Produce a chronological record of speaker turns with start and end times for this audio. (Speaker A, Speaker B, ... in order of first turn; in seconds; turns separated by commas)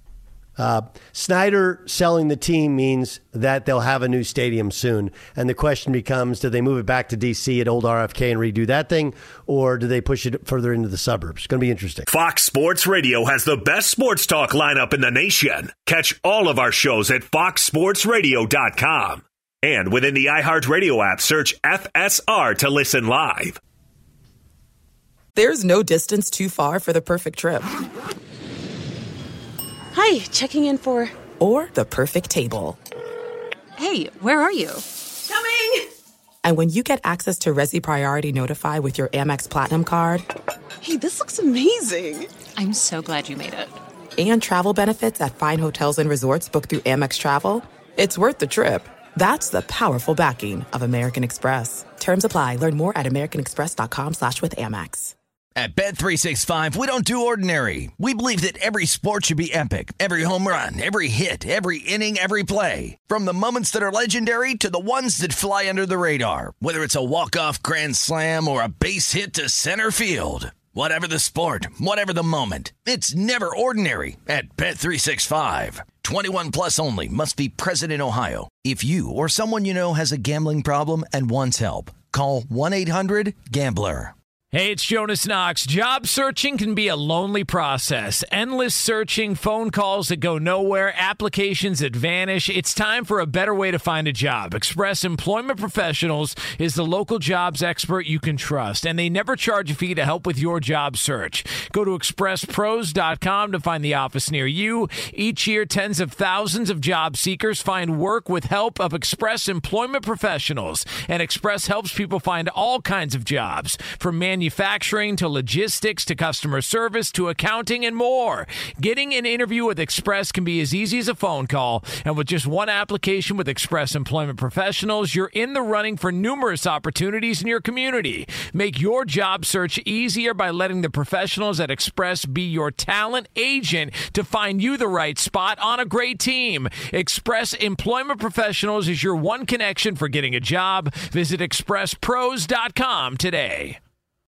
Speaker A: 0.6-12.0, Speaker B: 12.1-23.6, Speaker C: 25.3-27.7, Speaker D: 29.9-31.1, Speaker C: 31.4-32.8, Speaker D: 33.8-34.8, Speaker C: 36.4-40.2, Speaker D: 40.9-41.7, Speaker C: 42.0-42.2, Speaker D: 42.6-43.7, Speaker C: 44.2-55.1, Speaker E: 55.5-84.1, Speaker F: 84.5-143.8